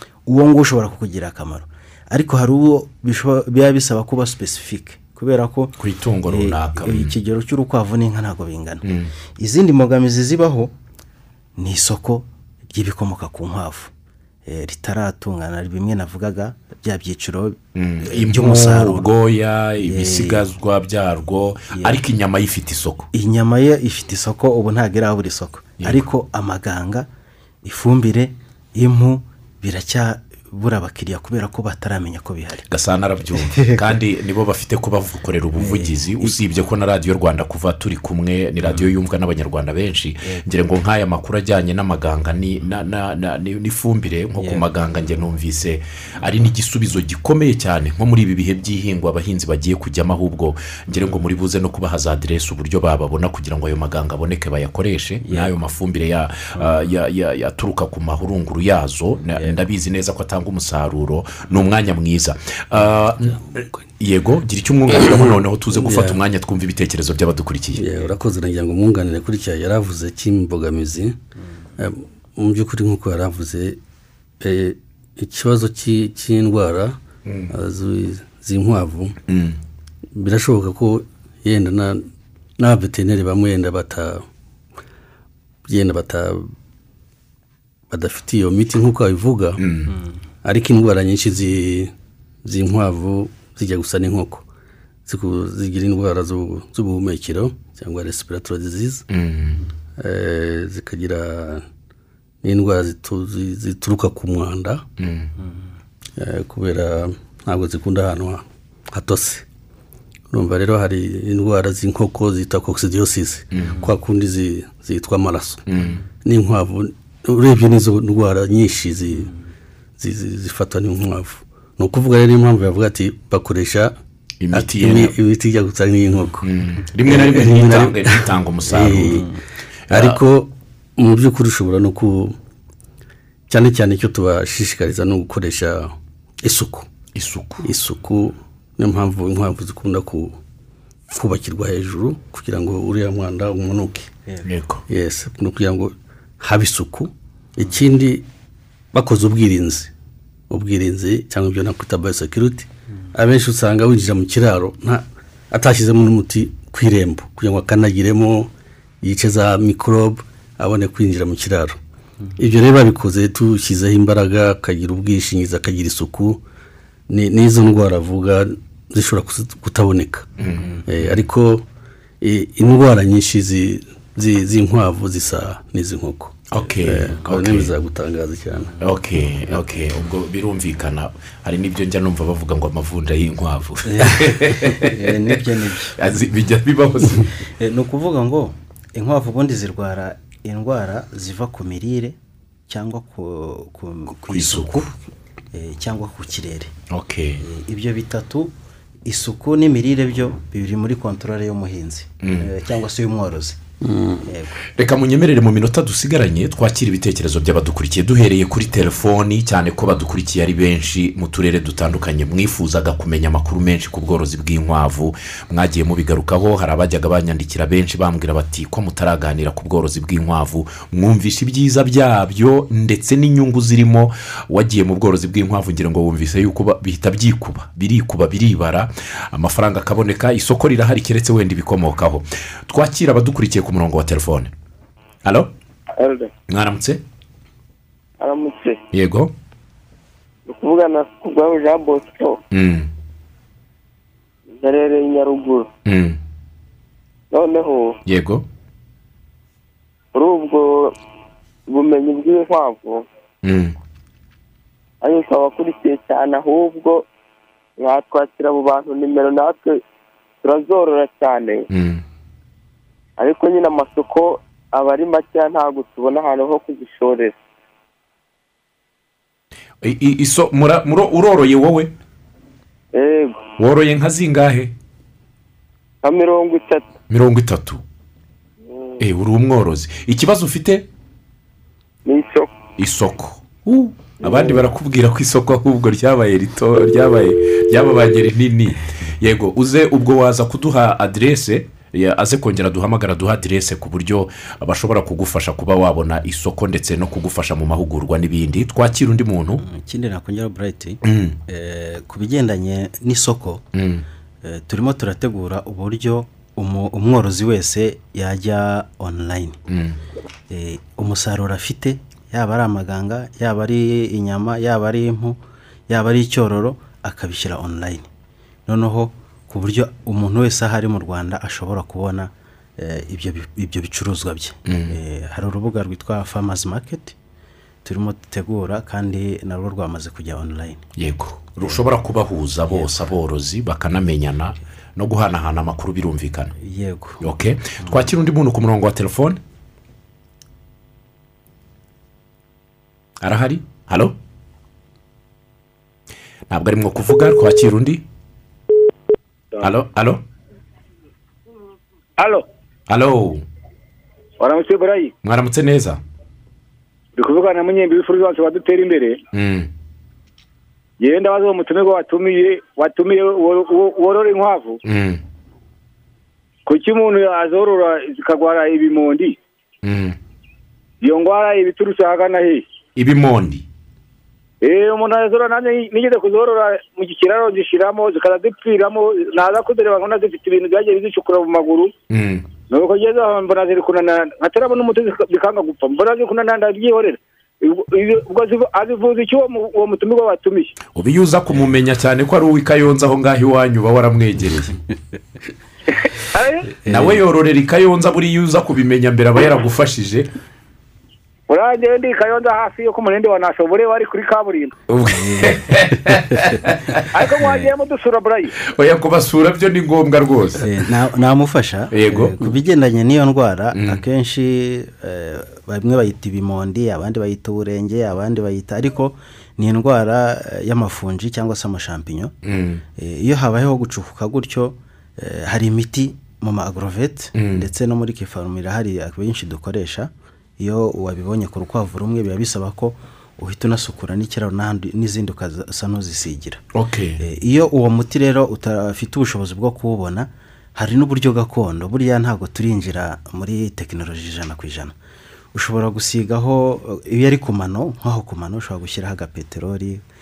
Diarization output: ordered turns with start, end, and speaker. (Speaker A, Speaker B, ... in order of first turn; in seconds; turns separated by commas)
Speaker A: 0.3-8.8, Speaker B: 5.8-7.1, Speaker B: 8.8-9.1, Speaker A: 9.4-10.7, Speaker A: 11.6-13.9, Speaker A: 14.5-19.1, Speaker B: 17.8-23.1, Speaker A: 19.8-20.4, Speaker A: 21.7-22.0, Speaker A: 23.1-27.1, Speaker B: 25.8-26.1, Speaker A: 27.6-32.7, Speaker B: 32.7-63.4, Speaker A: 33.4-34.0, Speaker A: 35.6-36.4, Speaker A: 44.4-44.6, Speaker A: 55.2-55.5, Speaker B: 64.0-67.9, Speaker C: 64.9-66.2, Speaker C: 67.8-71.2, Speaker C: 71.8-73.8, Speaker C: 74.4-77.0, Speaker B: 77.2-77.5, Speaker C: 77.5-79.2, Speaker B: 79.3-79.6, Speaker C: 80.2-82.1, Speaker C: 82.6-84.2, Speaker C: 85.7-86.5, Speaker C: 87.9-89.7, Speaker B: 89.6-89.9, Speaker C: 90.4-91.9, Speaker C: 92.4-94.4, Speaker C: 95.1-99.1, Speaker B: 99.1-99.6, Speaker C: 100.0-101.7, Speaker C: 102.4-104.8, Speaker B: 105.0-105.3, Speaker C: 106.2-109.4, Speaker C: 110.3-115.7, Speaker B: 113.5-113.9, Speaker B: 115.7-116.0, Speaker C: 116.2-119.3, Speaker C: 120.0-123.9, Speaker B: 124.4-125.1, Speaker C: 124.5-126.5, Speaker B: 126.4-129.3, Speaker C: 127.0-129.4, Speaker B: 129.9-130.2, Speaker C: 129.9-132.4, Speaker C: 133.5-136.9, Speaker B: 137.2-137.7, Speaker C: 137.6-140.4, Speaker C: 141.1-144.1, Speaker B: 144.4-144.8, Speaker C: 144.9-148.2, Speaker C: 148.9-149.9, Speaker C: 150.5-158.5, Speaker C: 159.0-161.8, Speaker C: 162.4-166.4, Speaker C: 167.1-170.3, Speaker B: 170.4-170.8, Speaker C: 170.8-171.7, Speaker C: 172.2-178.8, Speaker B: 176.5-177.7, Speaker B: 178.8-187.3, Speaker A: 183.9-186.0, Speaker A: 187.4-192.2, Speaker A: 192.7-194.9, Speaker B: 194.3-194.9, Speaker A: 195.5-196.7, Speaker B: 196.9-197.4, Speaker A: 197.4-198.5, Speaker A: 199.1-203.6, Speaker B: 202.2-202.5, Speaker C: 203.8-204.3, Speaker A: 204.2-204.6, Speaker B: 204.8-234.5, Speaker B: 235.2-235.5, Speaker D: 236.0-236.3, Speaker B: 236.5-237.0, Speaker D: 238.2-238.8, Speaker B: 238.9-239.3, Speaker D: 240.5-242.4, Speaker B: 242.5-242.9, Speaker D: 244.6-245.7, Speaker B: 245.8-246.2, Speaker D: 247.3-248.0, Speaker B: 248.1-248.4, Speaker D: 250.1-250.9, Speaker D: 251.7-253.1, Speaker B: 253.4-253.8, Speaker D: 255.0-257.1, Speaker D: 257.8-259.8, Speaker D: 260.4-261.7, Speaker B: 261.7-262.0, Speaker D: 263.2-267.4, Speaker B: 269.8-271.9, Speaker D: 272.9-273.4, Speaker B: 273.6-274.7, Speaker D: 276.0-276.9, Speaker B: 277.1-277.8, Speaker D: 278.7-279.0, Speaker B: 279.0-280.9, Speaker D: 282.0-282.5, Speaker B: 282.8-299.6, Speaker D: 284.2-284.6, Speaker A: 299.6-303.6, Speaker B: 301.0-301.4, Speaker B: 303.7-304.0, Speaker A: 304.4-309.6, Speaker B: 309.7-310.0, Speaker A: 310.5-318.1, Speaker A: 318.7-327.1, Speaker B: 324.6-325.0, Speaker A: 327.8-330.9, Speaker B: 331.0-336.5, Speaker A: 336.6-337.2, Speaker B: 337.2-339.4, Speaker B: 343.2-344.1, Speaker B: 346.5-348.0, Speaker B: 349.6-350.2, Speaker E: 352.2-352.4, Speaker B: 352.9-353.4, Speaker E: 354.4-355.1, Speaker B: 355.2-356.0, Speaker E: 357.1-359.2, Speaker B: 359.3-359.7, Speaker E: 361.0-364.8, Speaker B: 364.8-365.2, Speaker E: 366.6-369.4, Speaker B: 369.8-370.2, Speaker E: 371.0-372.6, Speaker B: 373.0-373.6, Speaker E: 374.6-381.9, Speaker B: 382.1-382.5, Speaker E: 382.7-390.8, Speaker B: 390.9-394.8, Speaker E: 396.0-396.7, Speaker B: 396.8-400.3, Speaker A: 396.9-397.1, Speaker E: 401.5-404.7, Speaker B: 404.9-407.3, Speaker A: 405.1-406.6, Speaker E: 407.0-408.5, Speaker B: 408.6-410.8, Speaker A: 410.6-422.3, Speaker B: 411.9-412.4, Speaker B: 413.7-414.0, Speaker B: 422.4-422.8, Speaker A: 423.0-436.6, Speaker B: 427.4-427.6, Speaker B: 436.7-437.2, Speaker A: 437.2-444.9, Speaker A: 445.5-450.0